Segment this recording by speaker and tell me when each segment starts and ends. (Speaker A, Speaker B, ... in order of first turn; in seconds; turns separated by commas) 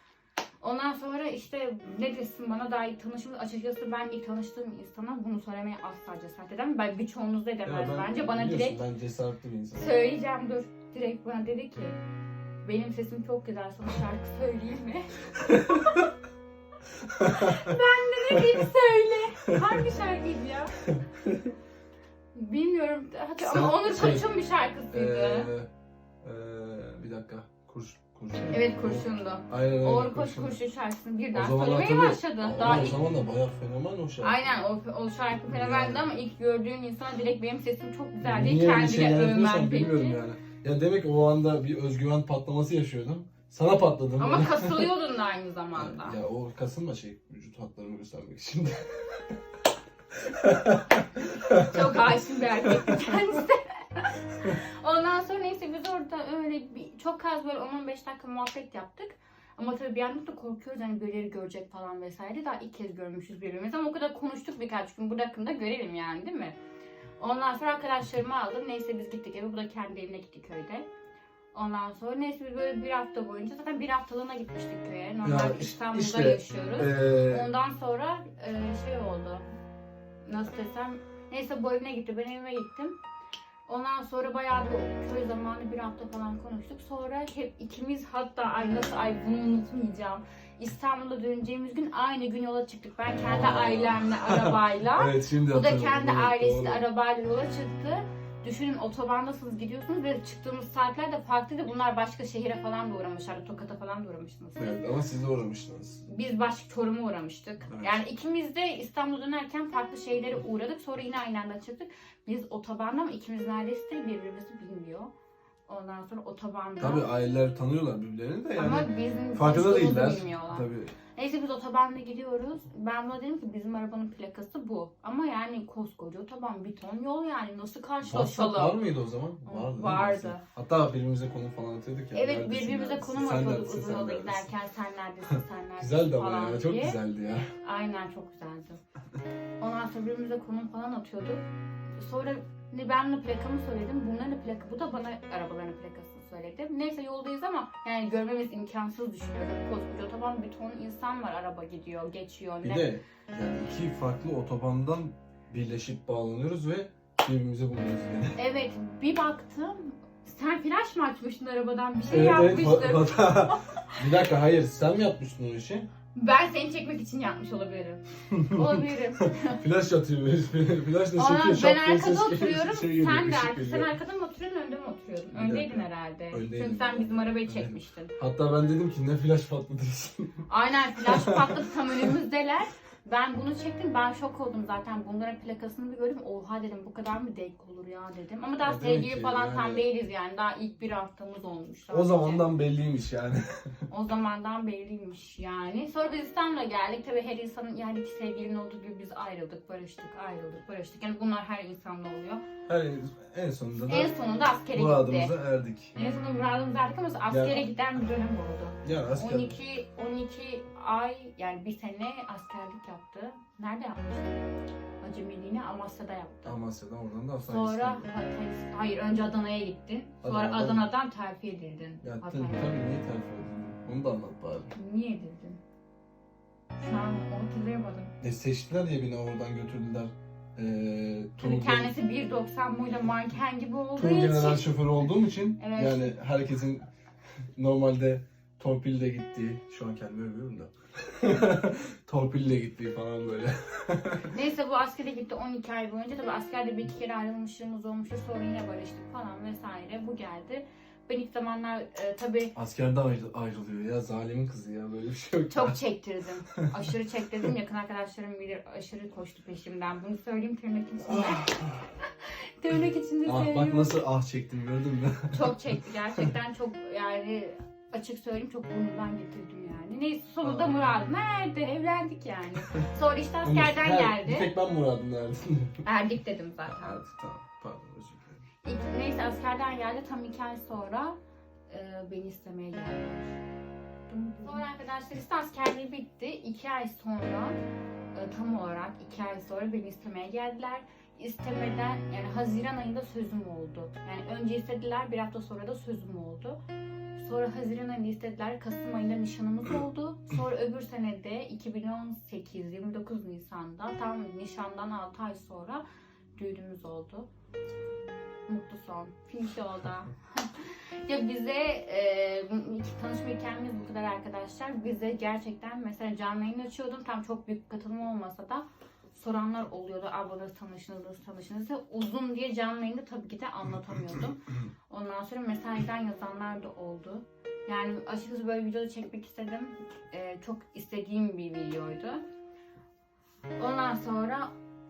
Speaker A: 0.6-8.8, Speaker B: 7.6-9.9, Speaker A: 9.7-12.0, Speaker A: 12.6-15.1, Speaker B: 15.4-16.0, Speaker A: 15.7-16.1, Speaker B: 17.1-17.7, Speaker A: 17.3-20.8, Speaker B: 18.3-18.7, Speaker B: 19.5-19.8, Speaker B: 20.9-21.5, Speaker A: 22.3-25.5, Speaker B: 23.4-24.3, Speaker B: 24.9-25.7, Speaker B: 26.2-30.6, Speaker A: 28.5-33.0, Speaker B: 31.3-34.5, Speaker A: 34.2-40.2, Speaker B: 35.5-36.1, Speaker B: 38.2-44.9, Speaker A: 44.2-46.2, Speaker B: 45.7-49.4, Speaker B: 50.1-51.0, Speaker A: 51.3-66.6, Speaker B: 51.5-51.9, Speaker A: 67.2-70.9, Speaker A: 71.5-79.5, Speaker B: 75.2-77.5, Speaker A: 80.2-83.0, Speaker A: 83.7-104.8, Speaker B: 93.2-96.8, Speaker B: 104.6-106.0, Speaker A: 106.0-115.1, Speaker B: 107.7-108.0, Speaker A: 115.7-117.0, Speaker B: 116.8-120.9, Speaker A: 118.5-128.8, Speaker B: 128.0-134.5, Speaker A: 129.4-130.4, Speaker A: 132.1-137.0, Speaker B: 135.8-137.5, Speaker A: 137.6-138.8, Speaker A: 139.6-141.4, Speaker A: 141.9-152.9, Speaker B: 152.6-158.4, Speaker A: 158.3-164.0, Speaker B: 162.1-165.9, Speaker A: 166.1-169.6, Speaker B: 168.3-168.8, Speaker B: 169.4-173.9, Speaker A: 171.2-178.1, Speaker B: 175.3-180.4, Speaker A: 180.5-192.5, Speaker B: 181.0-182.1, Speaker B: 188.6-189.8, Speaker B: 191.9-193.7, Speaker A: 193.9-202.4, Speaker B: 202.7-204.2, Speaker A: 203.9-205.3, Speaker B: 204.7-205.9, Speaker A: 205.9-214.3, Speaker B: 207.3-207.7, Speaker B: 208.8-209.6, Speaker A: 215.0-216.6, Speaker B: 216.4-218.1, Speaker A: 217.4-222.7, Speaker B: 220.2-220.8, Speaker B: 222.0-224.7, Speaker A: 224.7-225.6, Speaker A: 226.8-228.1, Speaker B: 228.2-231.9, Speaker A: 231.4-234.8, Speaker B: 234.0-236.9, Speaker A: 235.6-236.2, Speaker B: 237.6-244.3, Speaker A: 244.3-252.5, Speaker B: 252.5-255.8, Speaker A: 255.5-261.7, Speaker B: 256.6-256.9, Speaker B: 261.1-261.8, Speaker A: 262.2-264.0, Speaker B: 263.2-266.3, Speaker A: 265.3-274.5, Speaker B: 270.4-271.0, Speaker B: 273.4-275.8, Speaker A: 275.8-277.0, Speaker B: 276.6-278.4, Speaker A: 278.6-281.2, Speaker A: 281.7-283.4, Speaker A: 284.1-287.6, Speaker A: 288.1-296.6, Speaker A: 297.1-305.8, Speaker A: 306.4-307.3, Speaker A: 308.5-332.2, Speaker A: 333.6-334.5